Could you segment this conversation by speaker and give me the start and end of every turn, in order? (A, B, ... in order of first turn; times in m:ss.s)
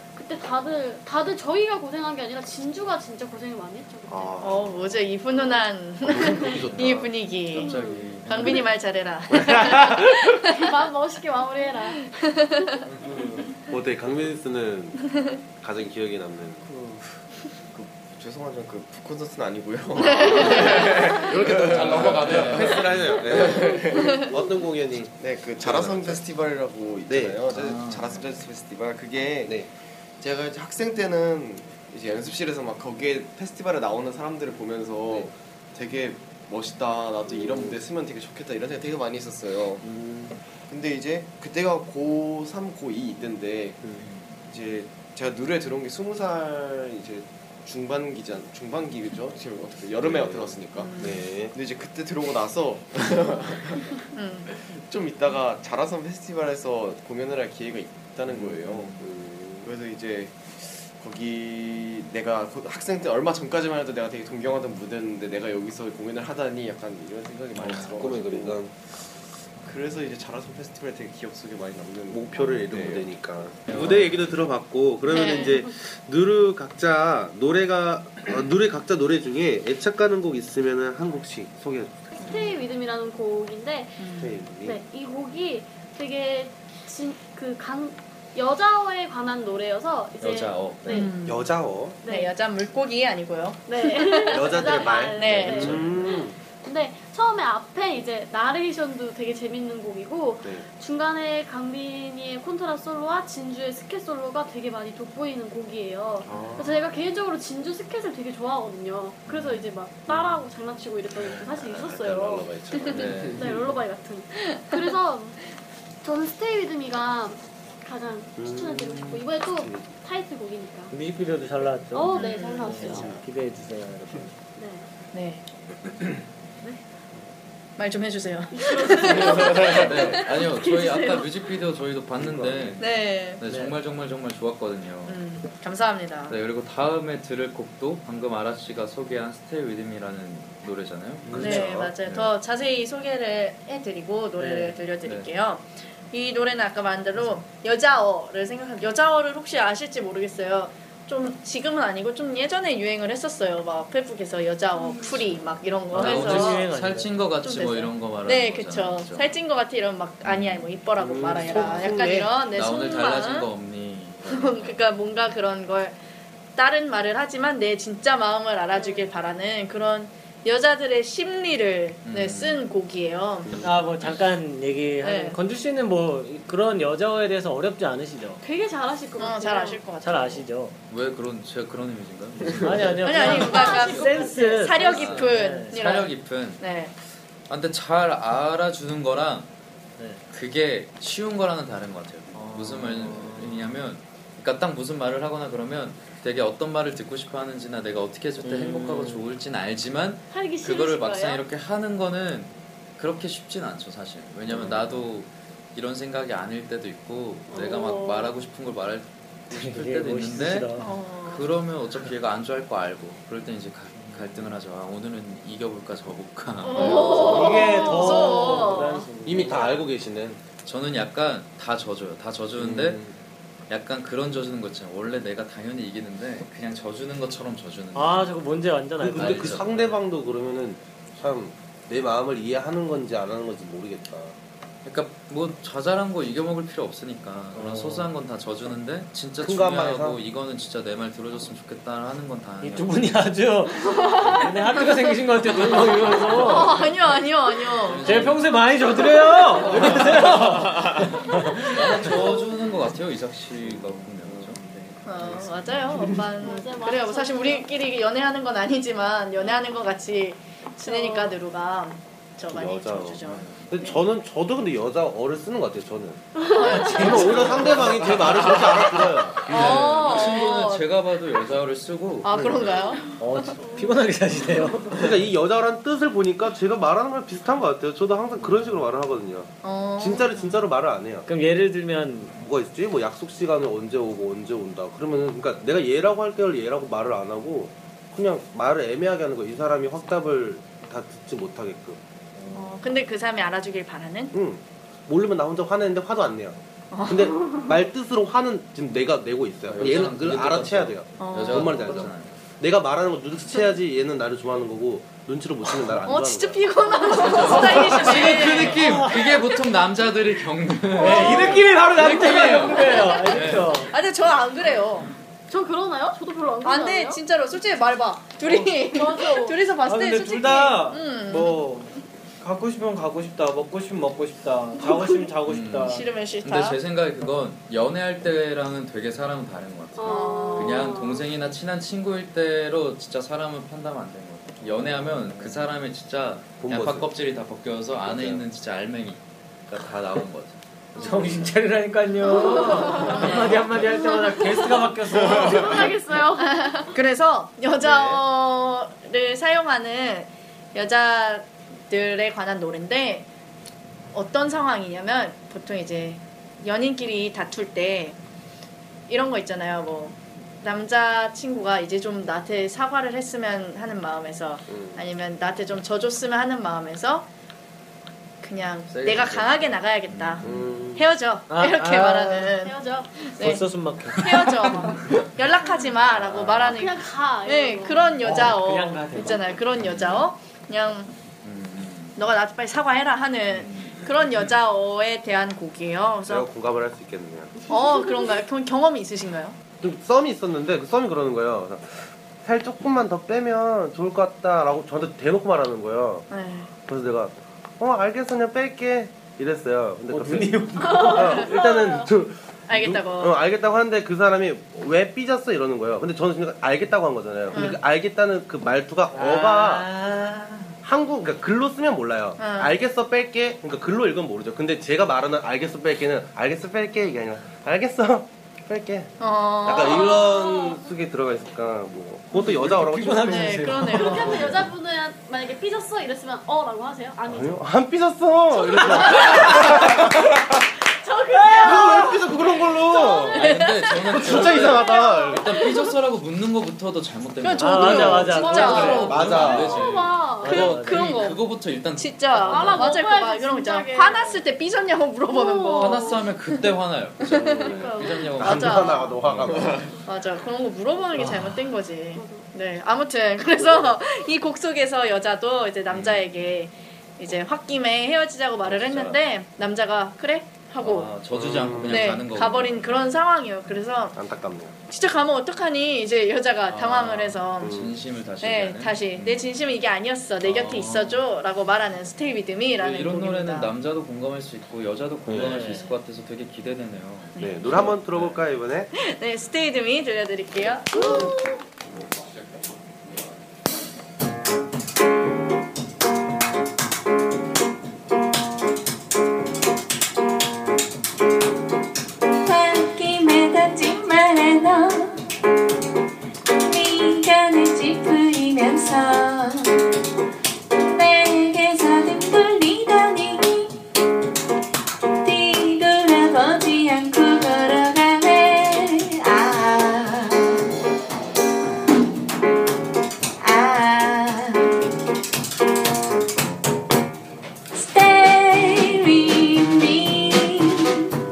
0:00.2-0:04.4 A
0:04.1-0:05.0 B
0:04.4-0:10.7 C
0:05.3-0:05.7 A
0:06.0-0:07.1 B
0:06.3-0:06.6 A
0:07.5-0:08.6 D
0:07.6-0:08.7 A
0:09.3-0:10.2 B
0:10.4-0:12.8 A
0:12.2-0:12.8 C
0:13.6-0:15.0 B
0:15.6-0:16.7 B
0:17.7-0:24.2 E
0:20.0-0:21.2 C
0:20.1-0:26.2 B
0:21.5-0:23.4 D
0:25.2-0:29.6 E
0:27.1-0:27.4 B
0:27.5-0:28.4 D
0:30.2-0:39.9 E
0:37.4-0:37.8 B
0:39.8-0:40.4 B
0:40.7-0:43.8 E
0:44.0-0:44.3 D
0:44.5-0:54.0 E
0:50.0-0:51.5 B
0:50.8-0:51.2 C
0:54.1-0:54.5 C
0:54.6-0:59.1 E
0:58.3-0:59.7 B
0:59.6-1:08.7 E
1:07.6-1:08.7 B
1:09.6-1:13.2 E
1:12.1-1:22.0 B
1:13.7-1:14.2 D
1:15.1-1:15.6 C
1:22.2-1:31.1 A
1:22.2-1:22.5 C
1:24.0-1:24.4 C
1:24.2-1:24.8 B
1:30.2-1:31.1 D
1:30.9-1:35.9 C
1:31.2-1:32.0 B
1:32.0-1:32.3 A
1:33.7-1:52.5 A
1:34.3-1:36.4 B
1:35.3-1:35.8 D
1:46.2-1:46.7 B
1:49.3-1:49.6 D
1:51.2-1:53.7 B
1:52.9-1:53.5 D
1:53.3-1:55.4 A
1:54.4-1:54.8 C
1:56.0-2:00.9 A
1:58.4-1:59.8 B
2:00.9-2:04.3 F
2:01.9-2:03.2 A
2:02.1-2:03.1 C
2:02.9-2:03.2 B
2:04.6-2:04.9 A
2:05.1-2:05.4 C
2:07.8-2:10.2 C
2:08.5-2:11.3 A
2:09.3-2:15.2 D
2:12.2-2:12.8 B
2:12.8-2:13.4 C
2:13.5-2:13.8 F
2:15.1-2:16.4 C
2:16.3-2:22.3 D
2:21.3-2:21.5 F
2:21.3-2:21.9 B
2:21.4-2:36.7 C
2:24.4-2:24.8 F
2:25.0-2:25.3 D
2:34.7-2:35.2 A
2:35.9-2:39.3 D
2:35.9-2:37.2 F
2:37.4-2:43.5 C
2:40.2-2:40.7 D
2:41.0-2:42.4 B
2:42.5-2:45.1 D
2:44.3-2:46.0 C
2:46.6-2:53.6 C
2:48.7-2:49.1 A
2:52.1-2:52.6 D
2:53.6-2:58.4 F
2:55.0-2:55.4 C
2:58.4-2:59.8 A
2:59.2-3:00.4 C
3:00.0-3:00.8 F
3:00.9-3:03.7 D
3:02.6-3:05.8 F
3:03.0-3:06.9 C
3:03.2-3:04.8 A
3:04.8-3:06.6 D
3:07.5-3:09.5 D
3:10.3-3:37.5 D
3:12.3-3:13.7 F
3:18.4-3:19.3 F
3:20.3-3:21.4 A
3:24.5-3:24.8 B
3:27.5-3:28.4 A
3:29.5-3:30.9 F
3:30.8-3:31.5 C
3:34.0-3:34.5 F
3:36.6-3:38.8 A
3:36.7-3:39.1 C
3:37.0-3:39.9 F
3:39.2-3:40.4 B
3:40.6-3:43.0 D
3:42.6-3:43.1 B
3:43.7-3:48.4 D
3:47.9-3:50.0 F
3:49.0-3:54.4 B
3:49.0-3:50.0 D
3:54.8-4:03.0 D
3:57.5-3:58.1 F
3:59.4-4:00.2 B
4:02.6-4:06.8 F
4:03.8-4:04.5 C
4:06.4-4:08.3 C
4:07.7-4:08.7 D
4:08.0-4:12.2 F
4:09.6-4:14.6 D
4:13.8-4:14.5 B
4:15.0-4:23.9 C
4:15.2-4:16.1 D
4:16.4-4:17.7 A
4:20.8-4:21.4 A
4:22.5-4:29.9 B
4:23.3-4:23.7 D
4:26.4-4:27.6 A
4:26.5-4:28.0 C
4:26.7-4:28.2 F
4:29.4-4:30.9 C
4:29.4-4:32.8 D
4:32.2-4:33.5 C
4:32.3-4:32.7 B
4:33.2-4:35.2 F
4:33.6-4:33.9 A
4:35.0-4:41.3 B
4:39.6-4:40.7 C
4:41.3-4:42.3 F
4:42.4-4:52.0 B
4:52.5-4:54.4 C
4:54.3-5:06.7 B
4:56.9-4:57.8 C
4:59.7-5:02.4 D
5:01.2-5:02.1 C
5:06.0-5:08.9 C
5:07.1-5:13.9 D
5:07.5-5:08.1 B
5:08.4-5:09.2 F
5:11.0-5:13.9 F
5:11.0-5:11.7 C
5:12.7-5:15.1 C
5:15.5-5:17.2 A
5:16.6-5:21.6 C
5:18.4-5:18.7 F
5:18.9-5:19.6 A
5:19.8-5:26.1 F
5:25.4-5:40.6 D
5:25.9-5:26.8 C
5:30.0-5:31.3 A
5:30.0-5:31.0 C
5:36.6-5:37.1 B
5:38.0-5:38.4 B
5:41.0-5:41.3 A
5:41.0-5:45.9 F
5:42.6-5:43.3 A
5:42.9-5:43.5 C
5:44.2-5:46.8 A
5:46.4-5:53.3 C
5:47.8-5:48.2 B
5:54.1-5:58.2 C
5:59.1-6:07.3 C
6:04.7-6:05.0 B
6:08.4-6:21.1 C
6:08.9-6:10.9 D
6:10.4-6:11.1 B
6:11.5-6:12.5 F
6:12.6-6:13.1 A
6:13.4-6:14.9 F
6:16.1-6:16.8 D
6:16.6-6:18.1 A
6:18.0-6:18.4 D
6:18.2-6:19.5 F
6:19.8-6:20.3 D
6:21.4-6:22.2 D
6:22.2-6:26.5 C
6:23.5-6:24.4 D
6:26.3-6:27.6 B
6:27.7-6:29.6 C
6:27.8-6:28.2 A
6:29.8-6:36.2 B
6:36.3-6:36.7 C
6:36.9-6:49.9 B
6:40.1-6:41.5 F
6:40.8-6:42.1 A
6:42.7-6:43.4 C
6:47.5-6:47.8 C
6:49.1-6:50.8 F
6:50.8-6:59.1 B
6:52.4-6:52.8 C
6:59.2-7:00.2 C
6:59.6-7:03.8 B
6:59.7-7:00.9 A
7:02.3-7:04.5 F
7:03.2-7:04.5 C
7:03.9-7:07.7 A
7:07.3-7:10.6 B
7:08.5-7:13.5 A
7:11.5-7:13.5 B
7:11.7-7:12.1 C
7:13.3-7:23.0 D
7:13.4-7:15.9 C
7:14.0-7:15.4 B
7:14.6-7:15.4 A
7:17.4-7:19.6 C
7:17.6-7:19.1 F
7:18.3-7:20.7 A
7:18.9-7:20.0 B
7:20.4-7:21.2 F
7:20.5-7:26.7 C
7:22.4-7:24.4 A
7:25.3-7:26.2 A
7:25.8-7:29.9 D
7:27.2-7:27.8 C
7:27.3-7:29.9 B
7:27.6-7:29.2 A
7:28.4-7:29.2 C
7:30.0-7:41.2 C
7:31.2-7:31.4 D
7:32.2-7:32.5 A
7:35.9-7:36.3 D
7:38.6-7:39.2 D
7:40.8-7:43.2 D
7:41.3-7:42.2 B
7:41.8-7:44.2 C
7:44.2-7:44.8 B
7:44.9-7:47.8 C
7:46.7-7:49.5 D
7:47.6-7:47.9 B
7:48.4-7:53.7 C
7:50.4-7:51.3 D
7:52.8-7:58.4 D
7:55.3-7:55.6 B
7:55.4-7:55.9 F
7:55.5-7:55.9 C
7:57.4-7:57.9 C
7:57.4-7:58.9 B
7:58.9-8:01.6 C
8:12.4-8:15.2 G
8:16.6-8:19.8 G
8:20.9-8:23.8 G
8:25.2-8:30.7 G
8:33.4-8:34.8 G
8:37.7-8:41.1 G